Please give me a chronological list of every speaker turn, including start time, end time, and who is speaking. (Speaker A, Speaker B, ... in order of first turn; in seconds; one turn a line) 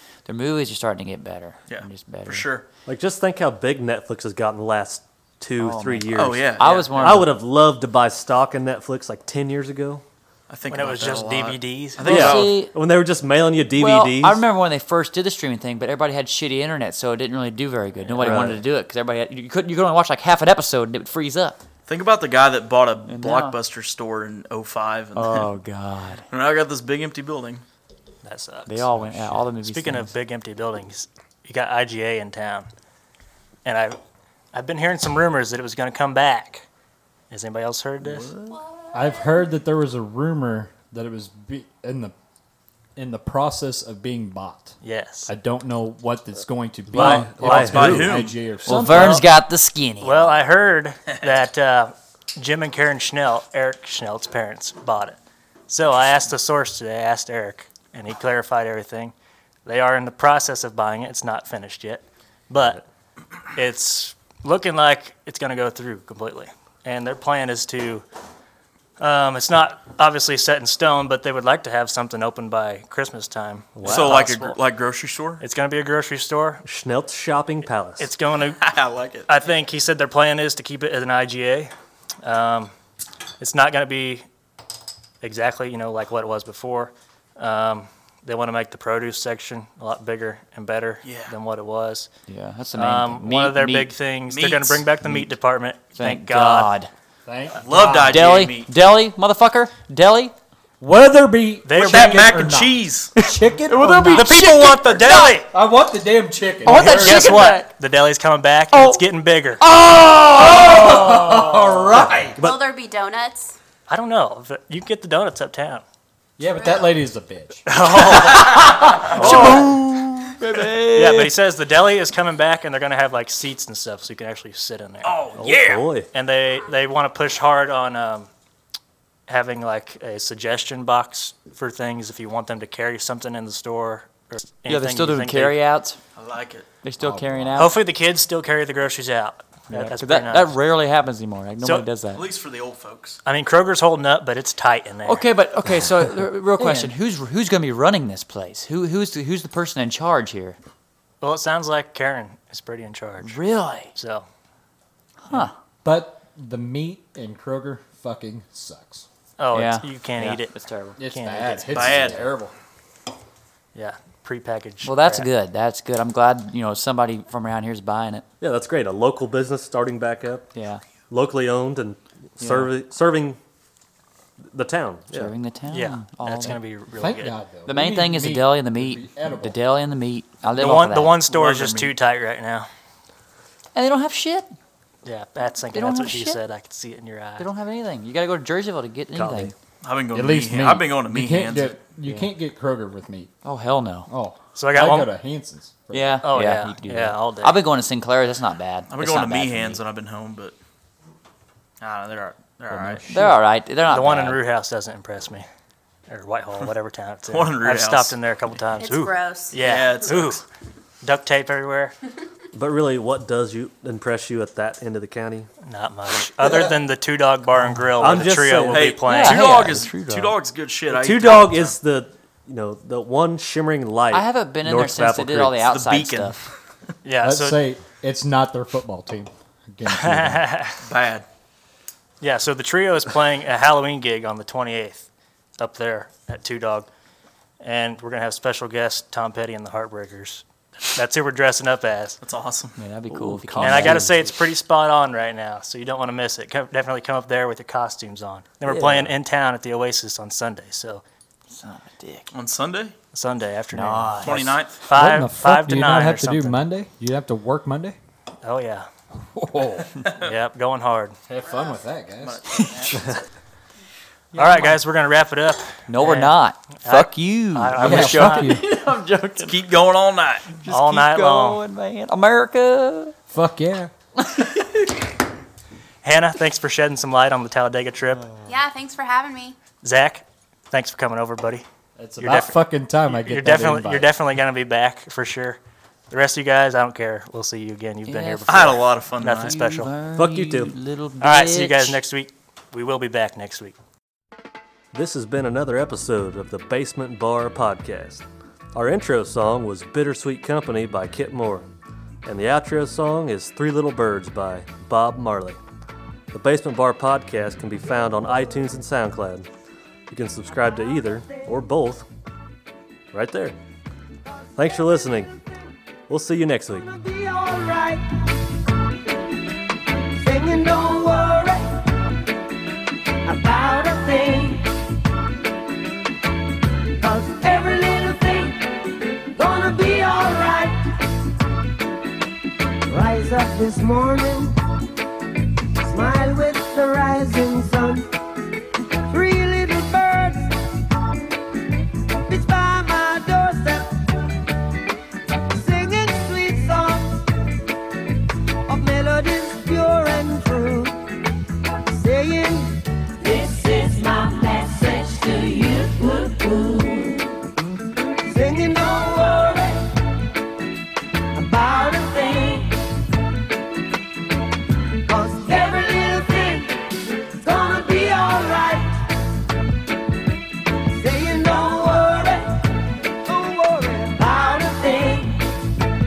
Speaker A: 0.3-2.5
Speaker B: 1.7-2.6
Speaker C: 2.9-10.1
Speaker A: 5.6-7.3
Speaker B: 6.1-7.3
Speaker B: 10.5-12.7
Speaker D: 10.7-12.1
Speaker A: 12.0-12.7
Speaker C: 12.1-14.4
Speaker A: 13.7-21.6
Speaker C: 18.2-18.6
Speaker B: 21.9-25.5
Speaker A: 23.1-23.6
Speaker A: 25.1-26.2
Speaker B: 26.3-27.6
Speaker D: 28.2-32.7
Speaker A: 28.7-30.1
Speaker D: 33.6-34.0
Speaker D: 34.5-36.7
Speaker D: 37.3-38.3
Speaker B: 38.0-38.6
Speaker E: 38.5-39.5
Speaker F: 38.9-42.1
Speaker F: 43.0-49.3
Speaker D: 44.8-45.3
Speaker C: 46.9-48.3
Speaker B: 47.0-48.4
Speaker A: 48.6-50.4
Speaker D: 48.7-49.2
Speaker D: 50.0-55.2
Speaker D: 55.7-59.1
Speaker D: 59.6-62.8
Speaker D: 63.5-68.0
Speaker D: 69.0-74.6
Speaker C: 73.8-74.2
Speaker B: 73.8-75.4
Speaker D: 75.4-76.6
Speaker C: 76.7-78.1
Speaker D: 78.0-78.6
Speaker B: 78.6-79.3
Speaker D: 79.3-81.7
Speaker D: 82.2-82.7
Speaker D: 83.4-84.3
Speaker D: 85.2-92.1
Speaker B: 91.0-91.3
Speaker A: 92.3-93.9
Speaker D: 92.8-96.7
Speaker B: 94.3-94.8
Speaker A: 95.0-95.3
Speaker A: 96.0-96.9
Speaker F: 97.3-98.2
Speaker B: 97.6-98.7
Speaker A: 98.1-100.3
Speaker F: 100.8-104.3
Speaker D: 101.7-102.2
Speaker B: 101.8-103.1
Speaker A: 103.2-104.4
Speaker B: 103.7-105.3
Speaker D: 104.1-105.5
Speaker F: 105.5-107.5
Speaker A: 106.6-107.7
Speaker D: 106.7-109.6
Speaker A: 108.7-109.0
Speaker A: 109.6-111.3
Speaker F: 109.9-112.4
Speaker C: 112.0-112.6
Speaker E: 112.4-113.6
Speaker D: 113.9-115.8
Speaker F: 116.4-117.7
Speaker E: 116.6-117.0
Speaker D: 117.7-119.8
Speaker B: 118.3-120.7
Speaker A: 119.1-121.3
Speaker D: 120.9-125.1
Speaker B: 125.0-125.9
Speaker C: 125.4-126.1
Speaker D: 126.1-128.3
Speaker D: 129.3-135.6
Speaker A: 134.7-136.0
Speaker B: 136.2-136.7
Speaker A: 136.8-137.8
Speaker F: 137.0-137.7
Speaker D: 137.6-140.6
Speaker A: 139.7-142.3
Speaker B: 142.1-143.2
Speaker D: 143.2-145.3
Speaker A: 145.1-150.6
Speaker D: 146.6-146.9
Speaker D: 151.2-153.4
Speaker A: 153.2-153.9
Speaker D: 153.9-154.3
Speaker A: 155.2-155.6
Speaker F: 155.8-159.1
Speaker D: 159.4-162.2
Speaker A: 159.5-161.0
Speaker F: 161.0-162.5
Speaker B: 161.7-162.3
Speaker D: 163.8-165.3
Speaker A: 164.8-168.2
Speaker C: 168.4-170.5
Speaker A: 170.6-170.8
Speaker C: 171.1-173.4
Speaker A: 172.4-172.7
Speaker C: 174.5-175.3
Speaker A: 175.1-176.7
Speaker D: 175.7-177.4
Speaker F: 177.0-179.6
Speaker A: 177.7-181.9
Speaker D: 180.6-182.7
Speaker A: 183.8-184.5
Speaker D: 185.1-187.5
Speaker A: 185.7-186.4
Speaker A: 187.4-189.6
Speaker C: 189.2-189.5
Speaker B: 189.8-191.8
Speaker F: 190.1-193.3
Speaker A: 192.0-192.4
Speaker A: 193.4-194.1
Speaker F: 194.1-196.3
Speaker D: 194.6-195.1
Speaker A: 195.9-199.8
Speaker D: 196.2-197.6
Speaker B: 198.9-200.6
Speaker B: 201.8-203.0
Speaker F: 202.7-203.3
Speaker A: 203.1-204.4
Speaker D: 203.9-205.5
Speaker D: 206.1-210.4
Speaker B: 207.3-208.2
Speaker E: 208.8-209.6
Speaker B: 209.6-210.4
Speaker D: 211.0-211.9
Speaker C: 212.5-215.5
Speaker D: 215.6-219.8
Speaker A: 217.7-218.2
Speaker C: 218.0-218.9
Speaker B: 218.7-221.8
Speaker A: 219.0-220.3
Speaker C: 220.9-225.6
Speaker A: 224.1-226.4
Speaker B: 225.6-226.5
Speaker D: 227.0-227.6
Speaker F: 227.2-230.5
Speaker D: 229.9-230.8
Speaker B: 230.8-231.3
Speaker D: 232.2-235.1
Speaker D: 235.6-236.9
Speaker D: 237.6-242.2
Speaker B: 242.2-242.8
Speaker A: 242.8-244.3
Speaker C: 243.1-244.2
Speaker D: 243.6-251.0
Speaker A: 248.7-249.1
Speaker A: 251.5-252.3
Speaker B: 252.3-252.9
Speaker D: 253.1-256.6
Speaker A: 253.7-254.6
Speaker B: 254.2-254.8
Speaker F: 254.9-258.0
Speaker D: 258.4-258.9
Speaker F: 259.4-260.2
Speaker D: 260.1-261.2
Speaker F: 261.3-263.1
Speaker B: 262.2-263.1
Speaker A: 264.3-264.8
Speaker D: 264.4-268.6
Speaker A: 265.9-269.7
Speaker F: 267.8-268.8
Speaker B: 269.4-270.6
Speaker A: 270.5-273.2
Speaker D: 270.7-271.6
Speaker F: 273.3-273.9
Speaker A: 274.2-274.6
Speaker D: 276.0-278.3
Speaker E: 278.5-279.6
Speaker D: 279.8-281.6
Speaker F: 282.0-284.2
Speaker D: 282.2-282.6
Speaker D: 283.1-285.6
Speaker D: 286.1-289.9
Speaker A: 288.1-292.0
Speaker B: 288.5-289.5
Speaker C: 290.1-290.7
Speaker D: 291.2-293.8
Speaker C: 294.9-301.7
Speaker C: 302.2-305.6
Speaker C: 306.3-309.5
Speaker C: 310.1-312.1
Speaker G: 310.7-311.4
Speaker C: 313.1-313.6
Speaker C: 314.6-315.3
Speaker C: 316.1-316.9
Speaker G: 316.8-318.2
Speaker G: 320.1-321.9
Speaker G: 323.2-324.8
Speaker G: 327.0-331.1
Speaker G: 332.9-334.6
Speaker G: 335.9-338.1
Speaker G: 339.1-340.6
Speaker G: 342.3-344.0
Speaker G: 345.5-347.3
Speaker G: 348.7-351.1
Speaker G: 351.9-357.4
Speaker G: 358.2-359.9
Speaker G: 361.3-362.9
Speaker G: 365.0-369.1
Speaker G: 370.9-372.7
Speaker G: 373.2-375.5